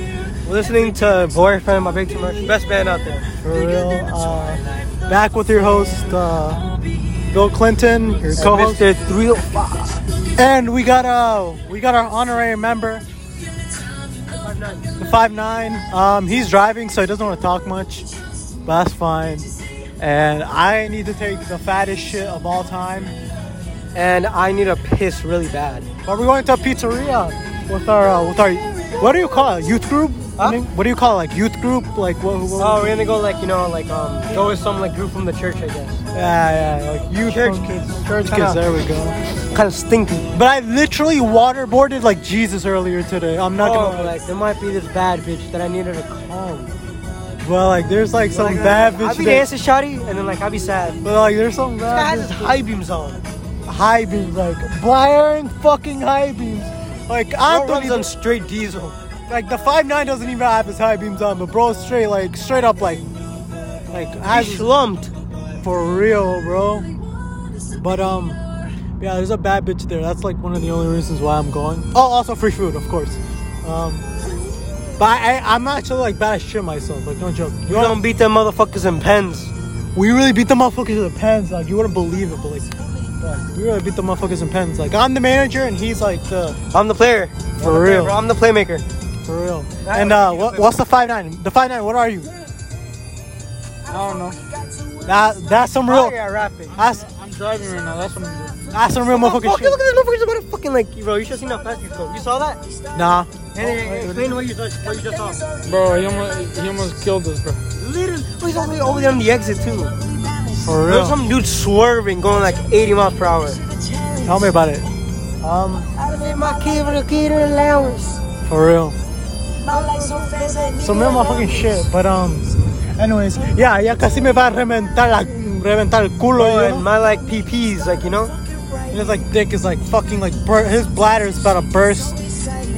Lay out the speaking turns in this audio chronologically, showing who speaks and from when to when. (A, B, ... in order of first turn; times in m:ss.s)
0:00.4-0:03.3 A
0:03.4-0:06.6 B
0:07.3-0:08.8 B
0:08.4-0:10.0 A
0:10.4-0:13.0 B
0:14.3-0:14.9 A
0:15.0-0:18.1 B
0:18.6-0:19.5 B
0:20.0-0:23.1 B
0:23.9-0:25.9 A
0:26.0-0:33.0 B
0:30.4-0:30.6 A
0:32.5-0:36.0 A
0:36.1-0:39.2 B
0:37.2-0:38.6 A
0:39.5-0:40.3 A
0:40.3-0:44.1 B
0:43.6-0:46.5 A
0:46.3-0:46.7 B
0:47.4-0:49.5 B
0:48.3-0:51.0 A
0:51.0-0:52.5 B
0:51.8-0:53.2 A
0:53.7-0:58.1 B
0:57.4-0:59.0 A
0:59.3-1:03.1 B
1:03.9-1:04.7 B
1:04.2-1:05.1 A
1:05.6-1:06.9 B
1:07.8-1:08.4 B
1:09.0-1:14.1 B
1:15.0-1:18.0 B
1:17.6-1:19.5 A
1:19.9-1:26.6 B
1:26.7-1:28.8 A
1:27.6-1:28.2 B
1:29.2-1:32.3 B
1:29.8-1:30.7 A
1:33.9-1:34.4 C
1:35.0-1:36.1 B
1:35.8-1:36.8 A
1:36.7-1:38.9 C
1:36.7-1:37.1 B
1:38.7-1:39.8 B
1:39.1-1:42.6 A
1:42.9-1:44.4 B
1:43.5-1:45.5 A
1:45.6-1:47.6 C
1:47.7-1:50.0 A
1:50.6-1:51.2 B
1:50.8-1:53.6 A
1:54.2-1:54.9 B
1:55.4-1:55.9 B
1:55.9-1:58.2 A
1:58.4-1:59.0 B
1:59.6-2:01.2 A
2:00.7-2:06.8 B
2:06.3-2:08.4 A
2:08.9-2:12.2 B